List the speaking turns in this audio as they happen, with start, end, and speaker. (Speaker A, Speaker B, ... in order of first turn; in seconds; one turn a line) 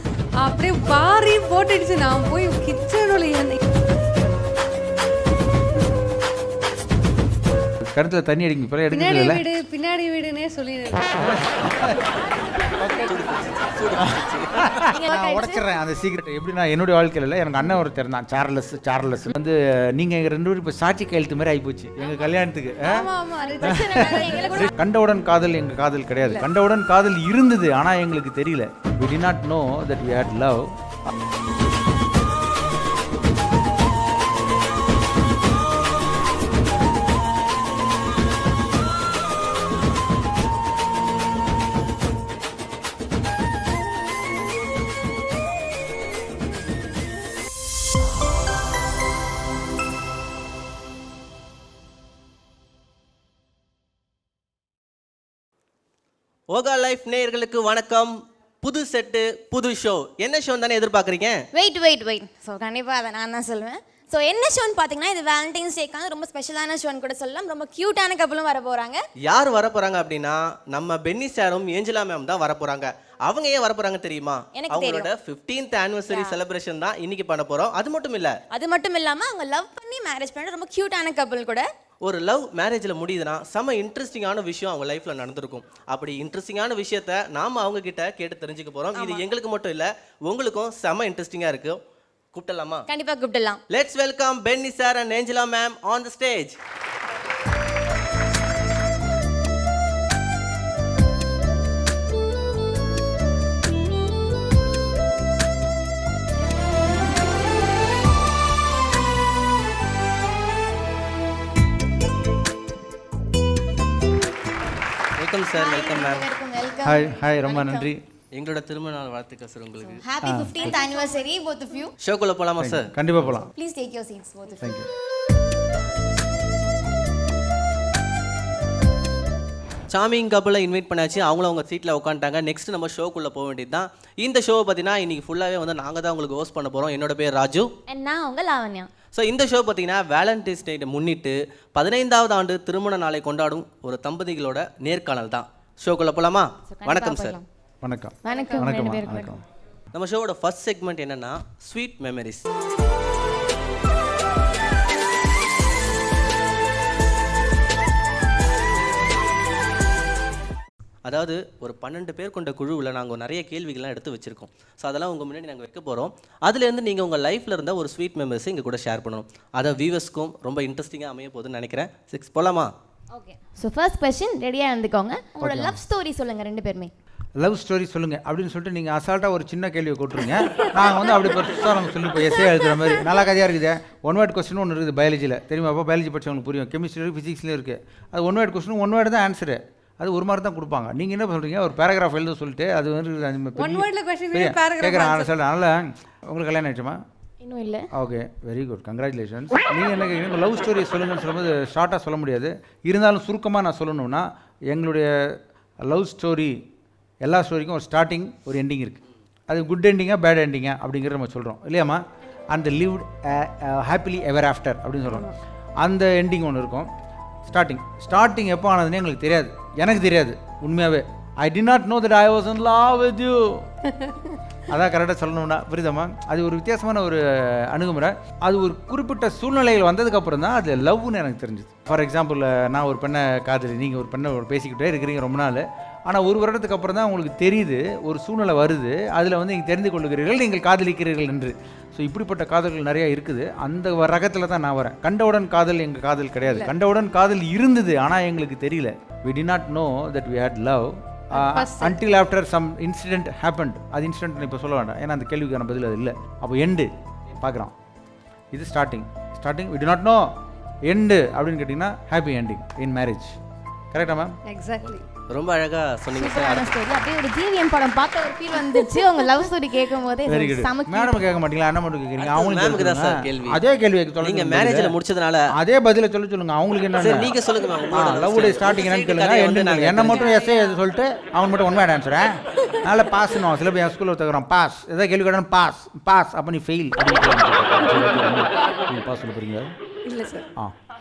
Speaker A: 0.4-3.6
Speaker B: 7.8-9.4
Speaker A: 8.9-11.5
Speaker B: 11.2-12.0
Speaker C: 12.8-14.7
Speaker B: 14.0-23.1
Speaker D: 14.8-15.6
Speaker A: 22.8-24.7
Speaker D: 23.4-24.7
Speaker B: 23.6-30.7
Speaker A: 26.2-26.5
Speaker C: 56.5-61.4
Speaker D: 61.5-69.0
Speaker C: 69.2-78.4
Speaker D: 74.5-75.1
Speaker D: 76.0-76.4
Speaker D: 78.5-81.7
Speaker C: 82.0-91.8
Speaker D: 88.9-89.2
Speaker C: 92.3-92.8
Speaker D: 92.9-93.6
Speaker C: 93.7-96.6
Speaker C: 115.2-116.3
Speaker D: 115.5-117.9
Speaker B: 116.8-118.0
Speaker C: 118.3-120.0
Speaker D: 120.0-121.9
Speaker B: 120.2-120.7
Speaker C: 122.0-123.4
Speaker B: 122.6-123.5
Speaker D: 123.5-124.8
Speaker B: 124.6-124.9
Speaker C: 129.9-137.7
Speaker D: 137.9-138.9
Speaker C: 139.1-147.3
Speaker D: 146.7-147.5
Speaker B: 147.8-149.4
Speaker D: 148.2-149.3
Speaker A: 148.3-148.7
Speaker C: 149.9-152.4
Speaker C: 161.1-172.7
Speaker D: 173.1-176.9
Speaker B: 175.4-175.8
Speaker B: 177.4-197.0
Speaker A: 180.4-181.3
Speaker A: 182.4-182.9
Speaker A: 193.6-195.3
Speaker D: 197.4-197.9
Speaker B: 197.9-206.6
Speaker B: 207.2-216.9
Speaker B: 217.4-223.7
Speaker A: 223.8-224.4
Speaker B: 224.7-257.7
Speaker A: 246.4-246.7
Speaker A: 251.3-252.0
Speaker B: 258.5-263.4
Speaker B: 263.9-264.4
Speaker A: 264.4-265.1
Speaker C: 265.3-266.7
Speaker D: 266.1-271.2
Speaker B: 270.2-274.9
Speaker C: 272.2-273.6
Speaker C: 274.2-275.5
Speaker B: 275.5-277.3
Speaker C: 277.0-280.4
Speaker B: 277.9-289.7
Speaker A: 280.1-280.7
Speaker A: 290.0-290.5